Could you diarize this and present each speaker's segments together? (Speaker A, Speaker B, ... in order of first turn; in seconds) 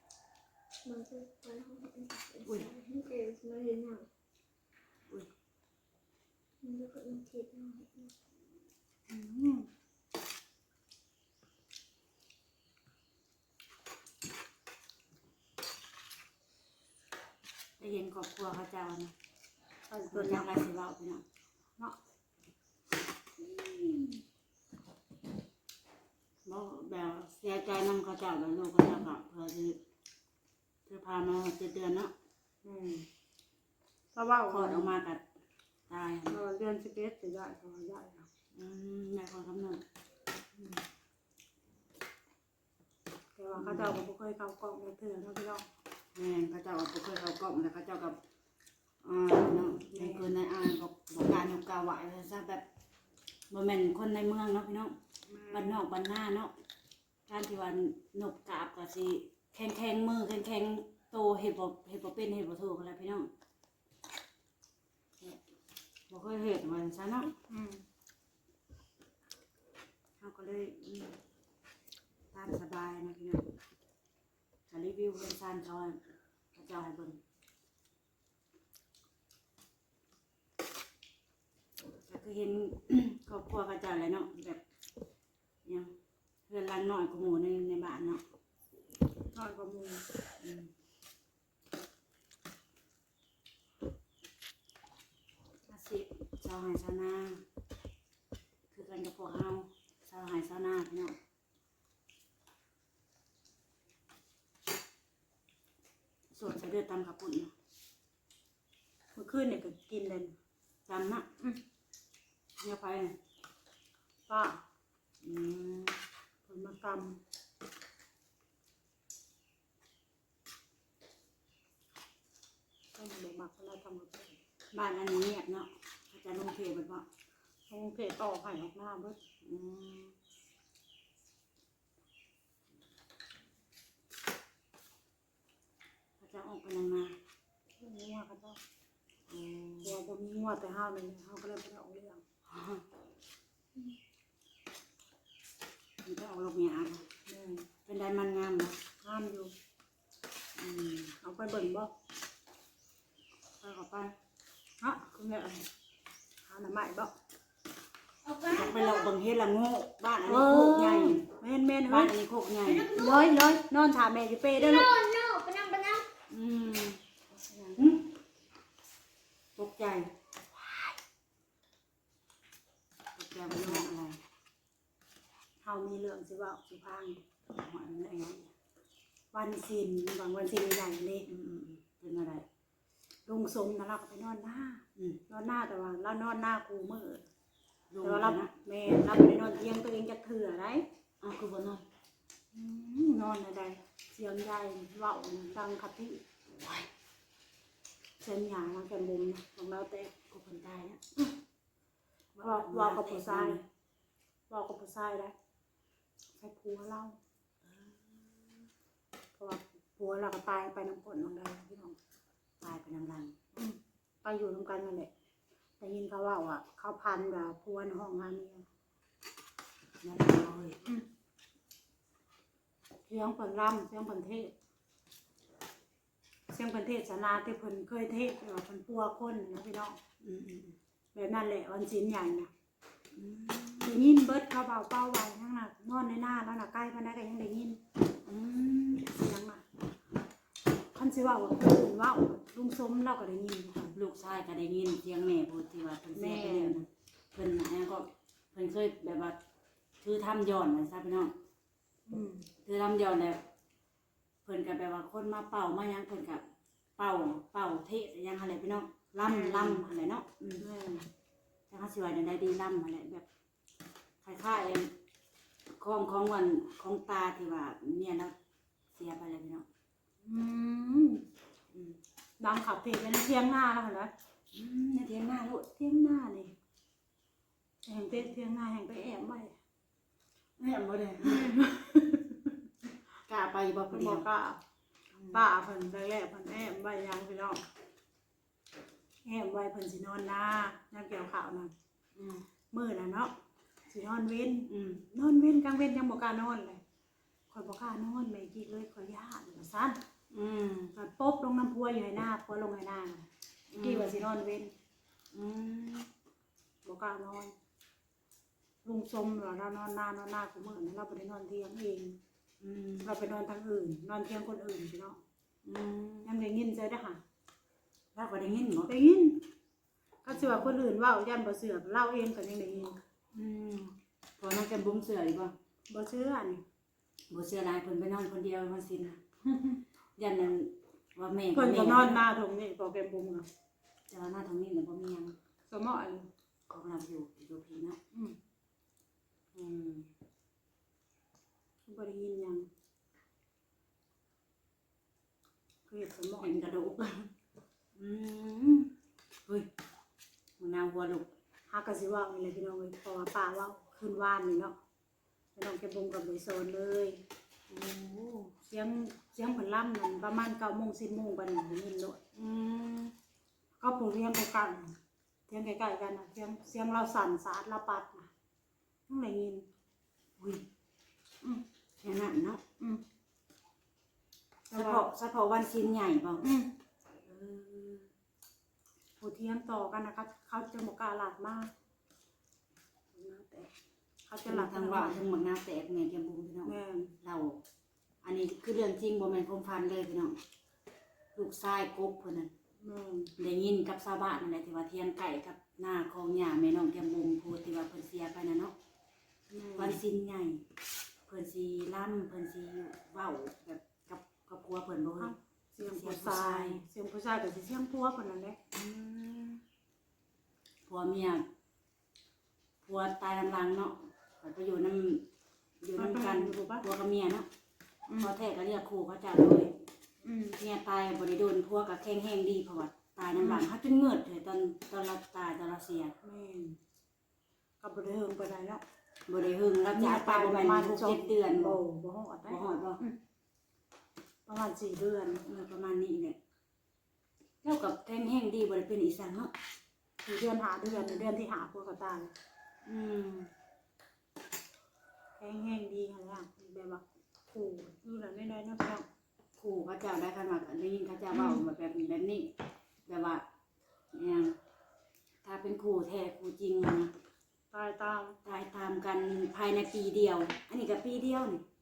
Speaker A: 0.8-4.1, 6.6-8.1, 158.2-159.1, 162.6-163.4, 164.6-166.1
Speaker B: 2.5-2.7, 17.8-19.1, 20.1-21.2, 26.4-29.8, 30.9-32.1, 34.5-35.2, 35.9-36.4, 38.5-39.8, 43.5-44.0, 46.1-48.2, 49.0-52.6, 53.5-55.0, 55.5-56.5, 57.3-63.3, 66.1-67.3, 70.2-71.2, 72.3-73.4, 74.7-76.0, 76.5-77.2, 82.1-84.6, 85.7-85.9, 86.5-88.2, 90.4-90.7, 95.7-97.4, 98.7-101.2, 106.3-107.5, 110.9-111.3, 112.6-113.2, 115.2-116.0, 124.7-127.0, 129.4-130.2, 136.2-137.2, 139.3-139.9, 142.5-142.8, 146.0-147.1, 147.9-148.8, 150.6-151.1, 153.6-154.1, 158.5-161.3, 161.9-162.9, 166.3-168.1, 169.6-170.1, 173.2-174.2, 177.5-178.5, 181.3-182.4, 187.9-188.5, 191.2-191.8, 196.5-196.9, 200.3-201.0, 202.3-203.7, 207.7-208.4, 212.6-213.3, 220.0-220.8, 230.2-230.8, 233.2-234.0, 238.2-239.1, 243.9-249.4, 250.0-251.3, 252.7-253.4, 254.4-256.4, 257.0-260.6, 261.7-263.2, 264.2-264.9, 265.8-268.3, 268.9-269.7, 274.5-275.9, 280.6-281.6, 283.3-284.3, 285.1-285.4, 292.2-292.4, 294.7-295.1, 300.3-300.9, 303.7-304.2, 305.3-306.1, 312.6-313.1, 315.6-316.3, 318.1-318.9, 320.3-320.8, 323.3-325.6, 327.3-329.2, 330.2-332.2, 334.1-335.4, 336.7-338.0, 339.6-340.0, 346.4-347.3, 348.0-348.9, 350.6-351.3, 357.7-358.5, 362.4-363.1, 370.4-370.7, 372.0-372.6, 374.7-376.5, 377.3-378.1, 384.4-387.6, 388.2-390.4, 391.4-392.5, 393.4-398.7, 399.8-400.6, 401.3-406.8, 408.7-409.6, 410.9-411.4, 412.8-415.2, 415.8-417.5, 418.2-419.8, 420.6-426.1, 429.3-431.8, 432.5-433.0, 435.4-436.4, 437.6-439.5, 440.9-441.3, 442.9-443.5, 449.6-452.5, 453.1-453.4, 454.1-454.5, 455.4-457.1, 458.4-461.6
Speaker C: 9.1-9.7, 19.9-20.5, 23.5-24.1, 32.6-33.1, 34.1-34.9, 36.3-38.3, 40.6-40.8, 43.4-45.7, 49.9-50.3, 55.3-55.8, 67.5-67.8, 89.3-90.0, 109.2-110.3, 114.3-114.6, 116.5-117.2, 123.0-124.4, 127.7-129.2, 137.8-138.6, 139.8-142.2, 147.3-147.7, 149.0-149.5, 151.2-151.9, 154.8-155.7, 156.5-157.1, 160.2-162.2, 162.9-164.9, 175.6-177.2, 179.3-181.3, 183.3-187.2, 188.0-190.9, 192.5-196.2, 198.2-200.1, 202.4-203.6, 204.5-205.3, 206.4-207.2, 209.4-212.0, 213.6-215.1, 215.8-218.7, 223.1-224.5, 226.5-230.0, 231.2-232.5, 233.8-237.8, 239.0-239.6, 240.9-243.9, 246.1-246.8, 252.1-252.5, 259.2-259.9, 260.6-261.1, 270.2-271.2, 272.4-274.1, 275.9-276.5, 277.9-279.5, 281.2-282.5, 283.9-284.6, 285.3-287.6, 289.2-291.7, 292.7-293.3, 293.9-296.8, 297.5-300.0, 300.9-304.7, 306.8-307.5, 308.9-312.2, 313.0-315.2, 316.2-317.2, 318.9-319.4, 320.2-323.0, 325.9-326.6, 329.5-329.8, 331.5-333.5, 335.7-336.3, 341.9-342.7, 345.9-346.9, 351.7-354.8, 355.6-357.2, 358.7-362.2, 363.8-364.9, 365.5-368.3, 369.1-369.6, 374.7-375.1, 376.4-376.7, 379.2-381.7, 383.1-383.7, 384.3-385.2, 386.6-387.1, 392.8-393.3, 399.5-400.0, 405.2-408.6, 416.0-416.9, 418.1-418.3, 420.2-420.6, 423.4-423.7, 426.2-426.8, 427.8-428.8, 429.9-433.2, 434.5-435.4, 440.2-442.3, 445.4-449.1, 451.3-451.6, 457.7-458.4